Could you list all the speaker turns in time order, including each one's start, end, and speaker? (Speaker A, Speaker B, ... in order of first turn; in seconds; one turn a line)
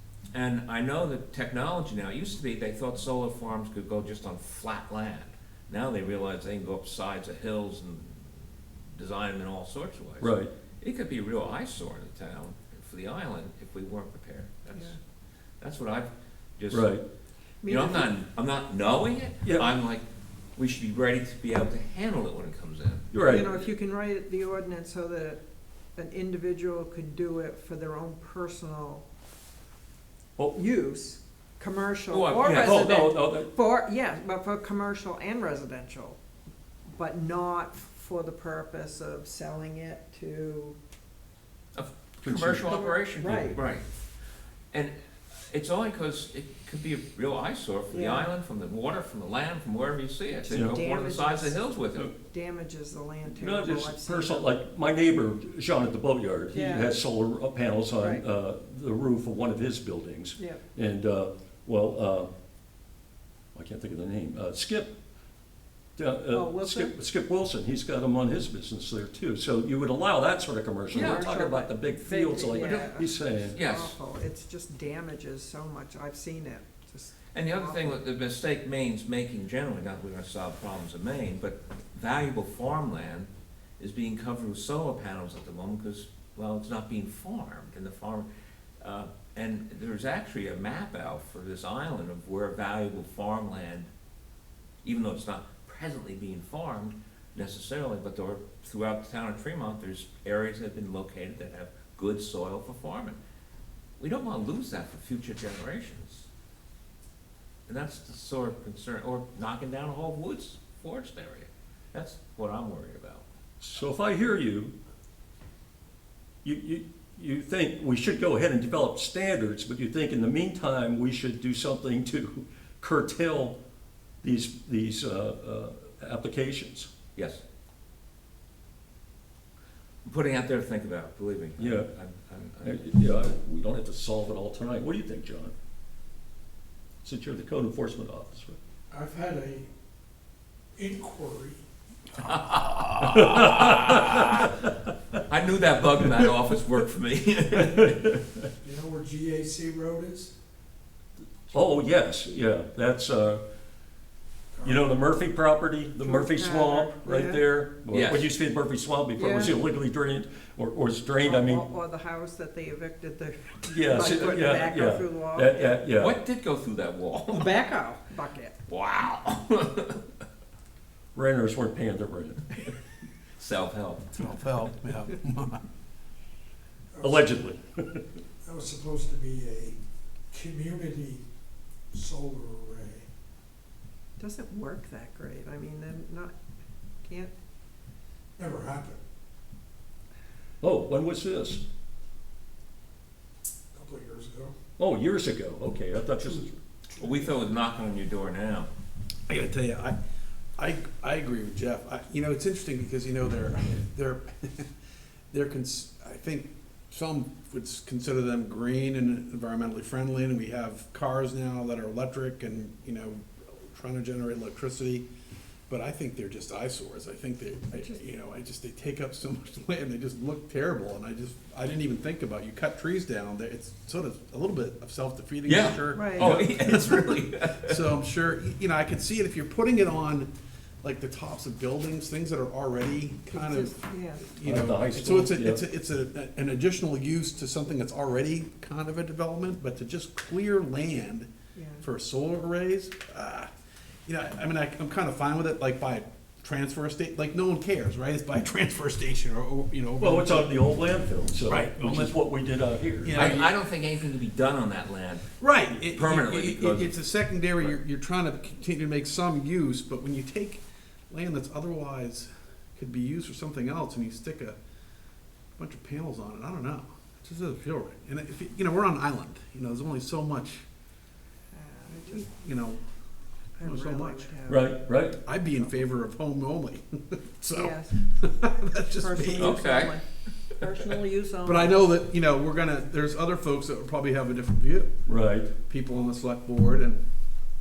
Speaker A: 0.3-8.2
Speaker A: 8.9-15.0
Speaker B: 10.2-10.5
Speaker A: 15.6-16.9
Speaker B: 16.7-17.0
Speaker C: 17.6-18.1
Speaker A: 17.6-20.1
Speaker B: 19.4-19.7
Speaker A: 20.6-23.7
Speaker B: 23.1-23.6
Speaker C: 23.3-25.4
Speaker C: 26.0-29.0
Speaker C: 30.5-36.2
Speaker A: 32.1-32.9
Speaker B: 32.5-33.5
Speaker C: 36.9-40.8
Speaker A: 41.8-43.9
Speaker B: 42.2-42.8
Speaker C: 42.7-43.6
Speaker A: 44.7-52.1
Speaker C: 47.9-48.3
Speaker C: 50.4-51.6
Speaker B: 50.5-50.8
Speaker C: 52.2-54.5
Speaker B: 53.3-62.3
Speaker C: 56.5-56.9
Speaker B: 63.5-65.0
Speaker B: 66.0-73.6
Speaker C: 66.3-66.9
Speaker A: 70.9-71.3
Speaker C: 70.9-78.0
Speaker A: 72.4-72.9
Speaker A: 73.5-74.0
Speaker A: 77.3-88.3
Speaker A: 88.8-93.9
Speaker A: 94.8-103.2
Speaker A: 104.0-106.3
Speaker A: 107.7-113.2
Speaker B: 113.6-114.7
Speaker B: 116.4-123.6
Speaker B: 124.2-126.9
Speaker A: 127.2-127.4
Speaker A: 130.1-132.9
Speaker B: 131.6-131.9
Speaker B: 132.6-135.5
Speaker B: 137.0-138.6
Speaker D: 138.9-139.7
Speaker D: 140.8-141.6
Speaker A: 142.2-144.5
Speaker B: 143.0-144.6
Speaker A: 145.3-148.2
Speaker B: 147.6-148.2
Speaker D: 148.6-150.3
Speaker B: 151.5-153.4
Speaker B: 154.6-161.7
Speaker C: 156.0-157.4
Speaker A: 157.9-158.3
Speaker C: 159.2-159.6
Speaker C: 161.2-165.6
Speaker B: 163.7-166.2
Speaker A: 164.0-164.3
Speaker A: 165.9-167.6
Speaker C: 167.3-168.6
Speaker A: 168.7-170.0
Speaker B: 171.2-172.4
Speaker A: 173.4-174.2
Speaker E: 174.1-175.6
Speaker D: 176.9-177.3
Speaker B: 177.0-178.2
Speaker D: 178.4-179.8
Speaker D: 180.3-181.2
Speaker D: 181.9-183.1
Speaker C: 184.2-186.3
Speaker C: 187.1-187.3
Speaker D: 188.4-189.0
Speaker B: 190.6-191.6
Speaker D: 193.7-194.5
Speaker B: 194.8-196.6
Speaker D: 196.9-197.3
Speaker A: 197.0-198.7
Speaker E: 199.3-200.0
Speaker E: 200.6-204.7
Speaker E: 205.3-215.1
Speaker E: 215.7-230.3
Speaker A: 225.5-227.8
Speaker C: 225.9-226.3
Speaker E: 230.8-241.3
Speaker C: 233.3-234.3
Speaker B: 234.4-235.6
Speaker C: 241.6-241.8
Speaker E: 241.8-243.5
Speaker E: 244.1-250.6
Speaker B: 250.0-253.4
Speaker E: 251.5-252.2
Speaker E: 253.0-253.5
Speaker A: 253.1-257.0
Speaker E: 255.4-264.6
Speaker E: 265.6-270.7
Speaker C: 271.5-272.3
Speaker E: 272.0-272.8
Speaker C: 273.6-274.8
Speaker E: 273.6-274.4
Speaker B: 274.5-275.2
Speaker E: 275.2-279.6
Speaker C: 277.5-277.9
Speaker C: 279.0-280.0
Speaker A: 279.4-280.0
Speaker C: 280.6-281.8
Speaker E: 281.4-284.9
Speaker B: 285.1-285.5
Speaker E: 285.7-287.1